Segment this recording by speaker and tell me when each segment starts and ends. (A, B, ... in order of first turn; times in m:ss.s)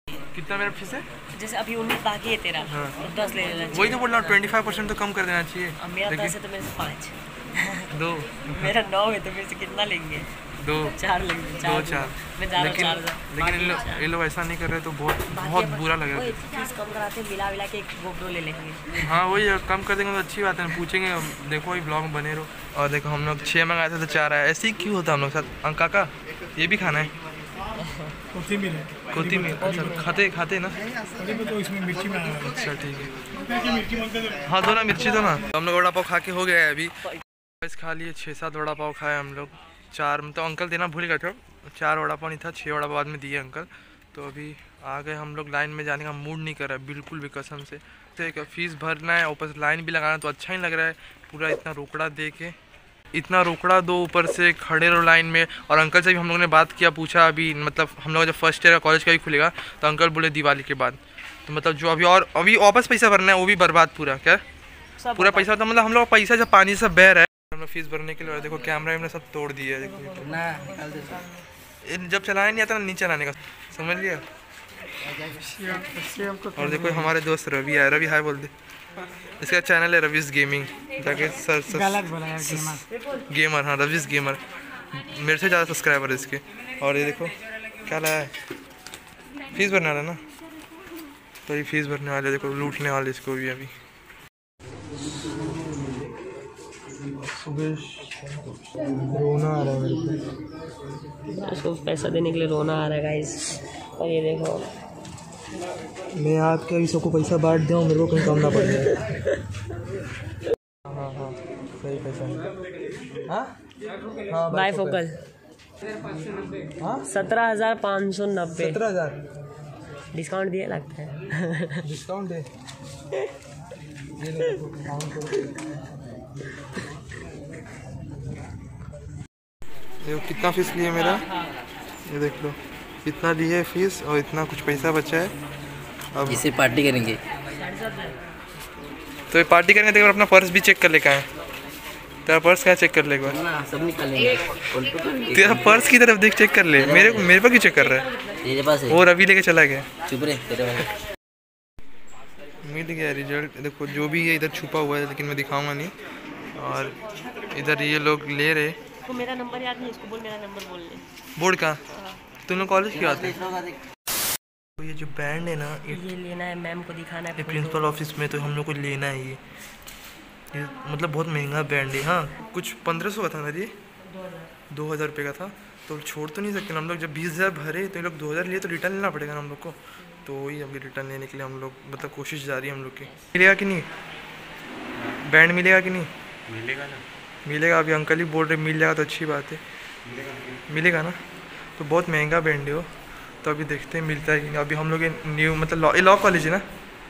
0:00.3-0:01.1 A
0:01.3-0:04.2 B
0:02.7-0:03.0 A
0:03.7-0:06.3 A
0:05.8-0:07.9 B
0:07.9-0:08.7 A
0:08.5-0:10.3 B
0:10.6-0:11.0 A
0:11.0-0:14.1 B
0:11.6-0:16.4 A
0:15.3-0:19.1 B
0:19.0-0:27.1 A
0:27.8-0:28.1 B
0:28.4-0:29.0 C
0:29.1-0:30.8 A
0:29.6-0:30.2 B
0:31.2-0:32.4 C
0:32.3-0:33.1 A
0:33.7-0:34.1 C
0:34.4-0:37.0 A
0:37.6-0:52.6 A
0:53.1-1:04.4 A
1:05.0-1:05.5 B
1:05.2-1:10.4 A
1:10.2-1:11.2 D
1:11.8-1:14.2 A
1:15.8-1:16.3 C
1:16.5-1:18.5 A
1:19.4-1:24.4 A
1:22.0-1:22.4 C
1:24.9-1:27.3 A
1:27.9-1:28.3 A
1:29.5-1:30.2 A
1:31.5-1:33.7 A
1:37.4-1:40.3 A
1:41.3-1:44.7 B
1:46.2-1:49.1 A
1:50.9-1:52.4 A
1:53.3-1:53.5 A
1:54.3-1:55.0 A
1:54.5-1:55.1 B
1:56.8-1:57.1 A
1:57.0-1:58.8 B
1:58.6-1:59.2 A
2:00.1-2:01.8 B
2:01.8-2:02.5 A
2:04.2-2:05.5 A
2:10.0-2:11.2 A
2:11.0-2:11.6 B
2:12.1-2:15.3 A
2:16.1-2:16.5 A
2:16.3-2:17.2 D
2:17.5-2:18.2 B
2:19.3-2:21.3 A
2:22.3-2:23.4 A
2:23.3-2:25.8 D
2:25.3-2:28.1 A
2:26.8-2:27.3 D
2:27.8-2:28.4 B
2:28.4-2:29.0 D
2:28.9-2:29.9 A
2:30.1-2:30.8 D
2:32.6-2:35.9 A
2:36.6-2:36.9 A
2:37.5-2:38.8 A
2:39.0-2:41.0 B
2:41.4-2:41.8 A
2:42.5-2:43.5 A
2:44.8-2:46.1 A
2:45.9-2:48.0 B
2:47.4-2:49.4 A
2:50.5-2:53.7 A
2:54.1-2:54.5 B
2:54.7-3:03.9 A
3:05.3-3:06.1 A
3:06.7-3:07.0 C
3:07.4-3:09.6 A
3:10.7-3:11.2 A
3:11.8-3:12.9 A
3:13.4-3:16.6 A